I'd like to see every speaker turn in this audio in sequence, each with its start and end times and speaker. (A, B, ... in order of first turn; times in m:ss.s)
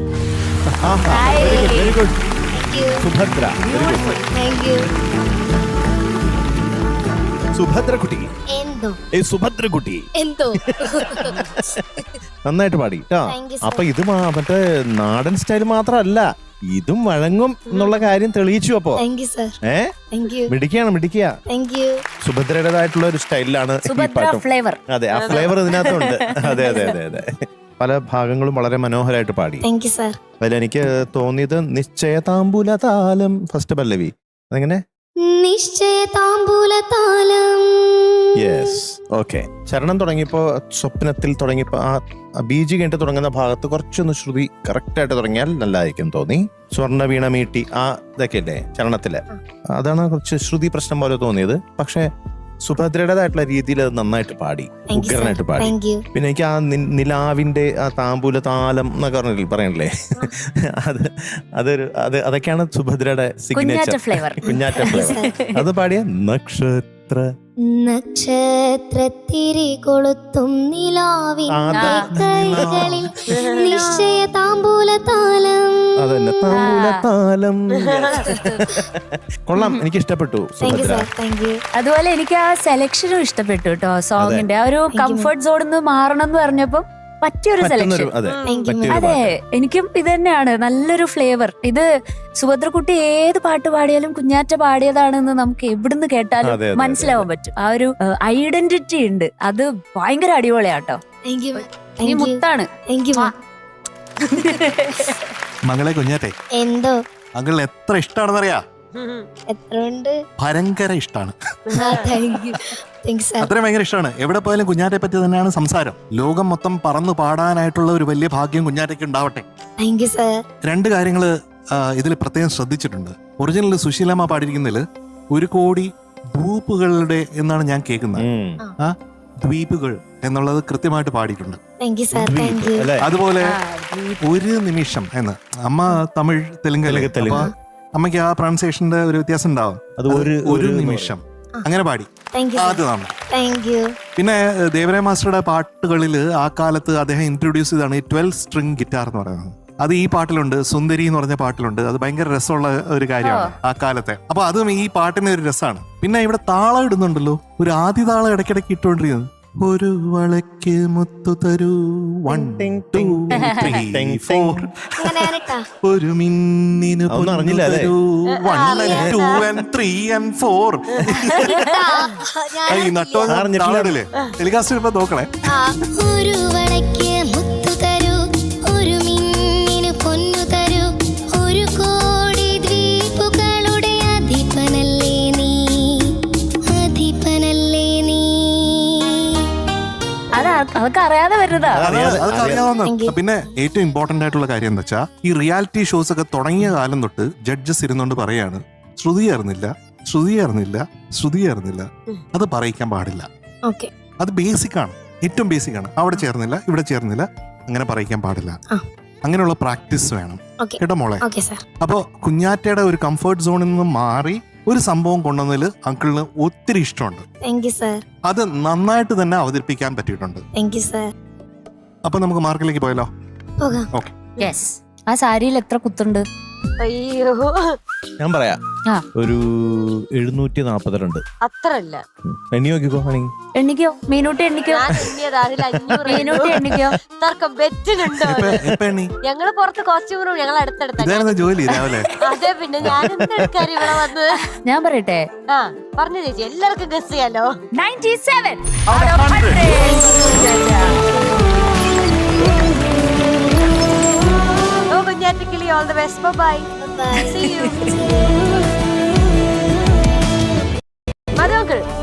0:00.8-0:02.2 A
0:01.1-0:02.0 B
0:02.5-0:03.0 C
0:03.0-0:04.1 A
0:03.6-0:04.2 D
0:04.3-0:04.9 C
0:07.6-0:08.3 A
0:08.5-0:09.0 C
0:09.1-0:10.1 A
0:10.2-0:11.4 C
0:11.0-0:19.0 A
0:13.3-0:13.9 C
0:17.7-0:18.0 E
0:19.0-0:19.6 C
0:19.6-0:19.9 A
0:20.1-0:20.5 C
0:20.5-0:21.3 A
0:21.5-0:22.0 C
0:22.2-0:29.6 A
0:23.8-0:24.8 B
0:25.1-0:25.6 E
0:25.8-0:26.9 B
0:29.6-0:30.2 C
0:30.4-0:34.8 A
0:35.3-0:38.8 C
0:38.4-0:49.2 A
0:49.7-0:52.1 A
0:52.6-0:59.9 A
0:54.9-0:56.0 C
1:00.8-1:07.2 A
1:03.6-1:05.6 B
1:04.5-1:05.3 C
1:07.7-1:15.9 C
1:11.5-1:13.1 A
1:11.7-1:12.1 B
1:13.3-1:13.9 E
1:13.6-1:14.0 B
1:16.0-1:21.1 A
1:16.5-1:17.0 B
1:17.8-1:18.3 E
1:18.2-1:18.6 B
1:20.6-1:21.6 C
1:21.8-1:28.1 B
1:24.2-1:24.5 A
1:24.9-1:25.3 C
1:27.6-1:29.3 A
1:28.2-1:28.8 E
1:28.5-1:29.0 C
1:28.8-1:31.9 B
1:32.4-1:41.0 B
1:36.4-1:37.3 A
1:41.3-1:43.3 C
1:42.0-1:43.3 B
1:44.2-1:45.2 B
1:44.5-1:45.1 C
1:45.7-1:46.3 D
1:46.6-1:47.0 C
1:47.4-1:48.6 D
1:49.0-1:49.3 E
1:49.5-1:50.2 C
1:50.4-1:51.4 D
1:51.7-1:52.1 E
1:51.8-1:53.5 C
1:53.4-1:59.4 D
1:59.8-2:00.4 C
2:00.6-2:08.3 D
2:08.2-2:08.6 A
2:08.8-2:11.6 D
2:11.8-2:12.9 C
2:12.2-2:13.1 A
2:12.2-2:13.6 D
2:13.4-2:14.3 B
2:14.2-2:23.1 D
2:16.9-2:17.5 A
2:17.2-2:17.5 C
2:20.0-2:21.2 A
2:22.3-2:23.9 C
2:24.2-2:51.5 D
2:33.2-2:33.5 B
2:42.3-2:44.6 A
2:43.3-2:43.7 B
2:45.0-2:45.6 C
2:47.1-2:47.9 A
2:48.4-2:49.4 E
2:48.8-2:49.6 A
2:51.3-2:53.4 C
2:51.4-2:51.8 B
2:52.7-2:55.3 D
2:53.3-2:54.0 A
2:55.5-2:58.2 C
2:58.7-3:06.2 C
3:06.7-3:09.3 C
3:10.3-3:11.9 B
3:11.7-3:12.6 A
3:11.8-3:23.3 D
3:12.8-3:13.2 C
3:23.6-3:23.9 C
3:24.2-3:28.6 D
3:29.2-3:31.3 D
3:30.6-3:31.6 C
3:31.8-3:37.2 D
3:37.4-3:38.0 C
3:38.3-3:40.4 D
3:40.6-3:41.1 C
3:42.0-3:43.1 D
3:43.6-3:43.9 C
3:44.4-3:46.2 B
3:46.8-3:47.8 E
3:48.2-3:48.6 A
3:49.2-3:51.2 A
3:51.4-3:52.0 E
3:52.5-3:53.3 A
3:53.6-3:54.9 B
3:54.7-3:58.6 E
3:56.0-3:57.0 B
3:58.3-3:59.1 D
3:59.2-4:01.5 E
4:01.0-4:02.1 D
4:01.7-4:02.1 B
4:02.2-4:04.3 E
4:02.8-4:03.5 A
4:04.6-4:05.2 B
4:05.5-4:07.5 E
4:07.8-4:11.1 B
4:08.9-4:09.8 D
4:09.8-4:11.4 C
4:14.9-4:16.7 E
4:16.8-4:18.5 C
4:17.2-4:17.9 B
4:17.3-4:17.7 E
4:21.4-4:21.8 E